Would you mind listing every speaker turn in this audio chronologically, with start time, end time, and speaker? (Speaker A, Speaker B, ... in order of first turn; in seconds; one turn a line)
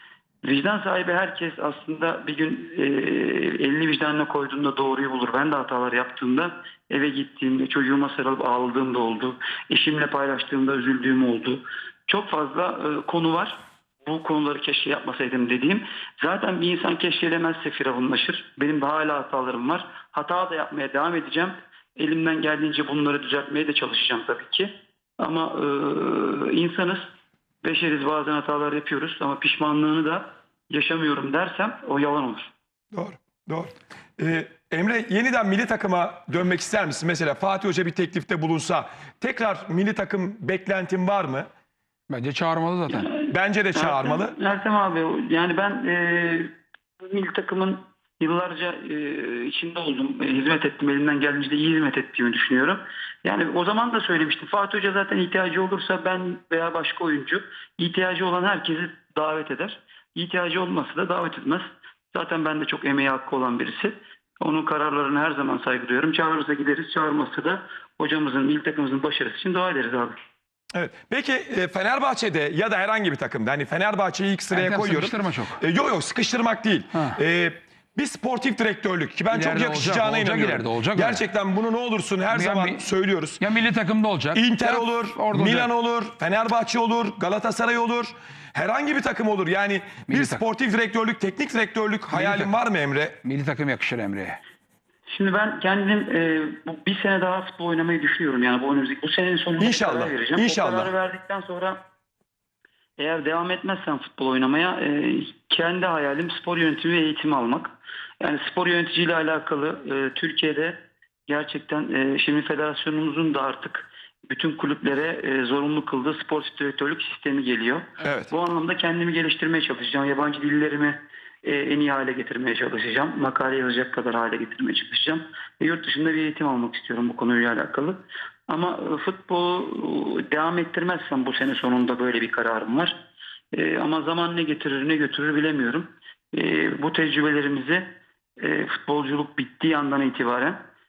Speaker A: 0.4-27.1
Speaker A: 27.6-32.5
Speaker B: 32.9-41.5
Speaker C: 42.1-43.1
Speaker A: 42.9-70.2
Speaker B: 43.3-44.4
Speaker B: 70.7-83.4
Speaker C: 74.5-75.6
Speaker C: 79.3-81.2
Speaker C: 82.3-82.9
Speaker C: 83.4-85.7
Speaker B: 84.3-93.2
Speaker C: 90.1-90.4
Speaker C: 92.1-92.5
Speaker C: 93.2-94.4
Speaker A: 95.1-101.8
Speaker B: 99.6-100.9
Speaker A: 103.0-110.8
Speaker A: 111.3-133.0
Speaker B: 118.0-118.3
Speaker A: 133.5-140.6